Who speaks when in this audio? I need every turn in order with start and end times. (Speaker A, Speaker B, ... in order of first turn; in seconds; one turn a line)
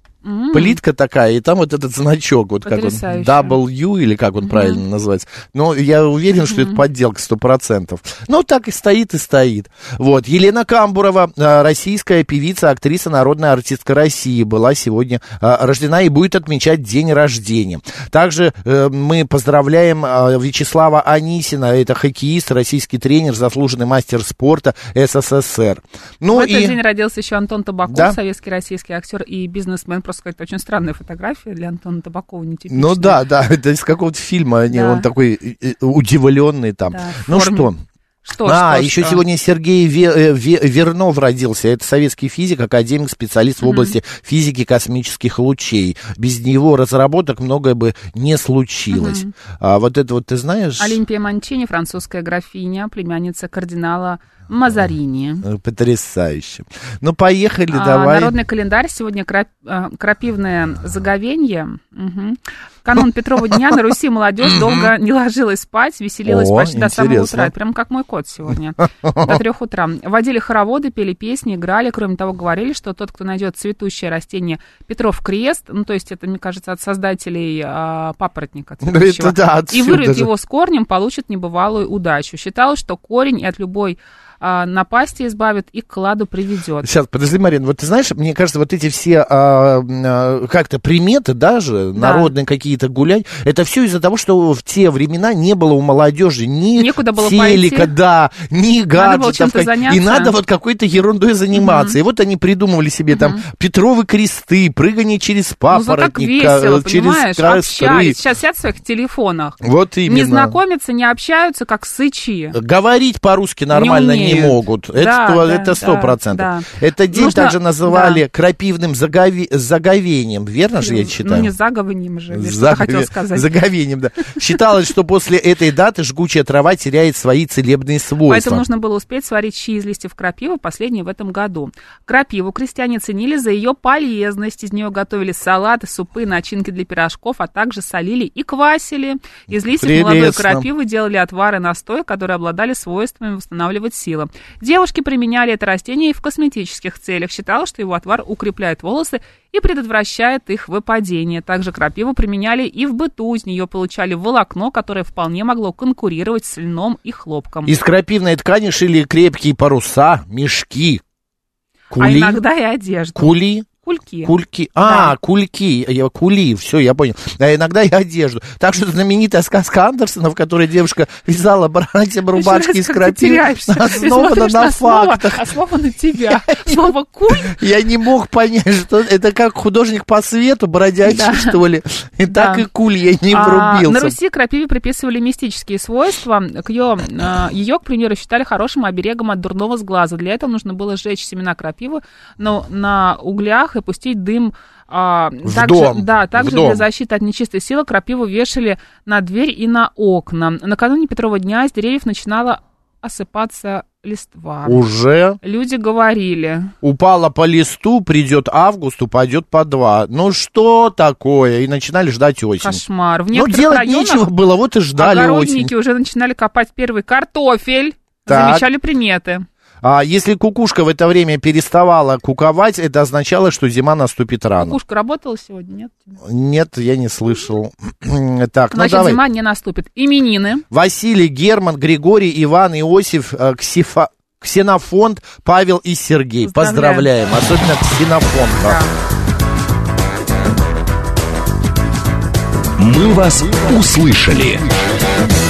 Speaker A: 0.2-0.8
Speaker B: 0.5-26.8
Speaker A: 2.6-3.6
Speaker A: 4.4-4.8
Speaker A: 6.4-6.8
Speaker A: 26.3-33.2
Speaker B: 27.9-28.2
Speaker B: 32.7-37.8
Speaker A: 34.7-35.1
Speaker A: 36.9-37.7
Speaker A: 38.2-39.2
Speaker B: 38.5-51.0
Speaker A: 43.6-44.0
Speaker A: 48.9-49.3
Speaker A: 50.8-55.5
Speaker B: 55.4-58.3
Speaker A: 57.7-86.9
Speaker B: 64.4-64.9
Speaker B: 66.2-67.5
Speaker B: 69.0-69.4
Speaker B: 78.8-80.3
Speaker B: 86.8-108.2
Speaker A: 92.0-92.3
Speaker A: 96.8-97.9
Speaker A: 99.0-100.3
Speaker A: 101.5-102.0
Speaker A: 103.1-103.4
Speaker A: 105.7-112.6
Speaker B: 109.6-110.6
Speaker B: 112.5-121.5
Speaker A: 113.7-118.2
Speaker A: 120.8-123.5
Speaker B: 122.3-128.6
Speaker A: 128.3-157.7
Speaker B: 139.5-140.7
Speaker B: 157.7-161.0
Speaker B: 161.9-162.4
Speaker A: 162.0-165.2
Speaker B: 163.2-163.7
Speaker B: 164.2-175.5
Speaker A: 172.3-177.6
Speaker B: 176.2-184.2
Speaker A: 181.1-181.6
Speaker A: 182.3-182.7
Speaker A: 183.3-204.8
Speaker B: 195.4-196.9
Speaker B: 204.7-205.4
Speaker A: 205.4-206.7
Speaker B: 206.8-215.7
Speaker A: 212.6-214.3
Speaker A: 215.0-219.4
Speaker B: 218.3-218.7
Speaker B: 219.8-224.8
Speaker A: 224.6-226.2
Speaker B: 226.2-229.2
Speaker A: 228.7-230.6
Speaker B: 230.7-238.8
Speaker A: 236.4-237.1
Speaker A: 238.6-238.9
Speaker C: 242.8-244.7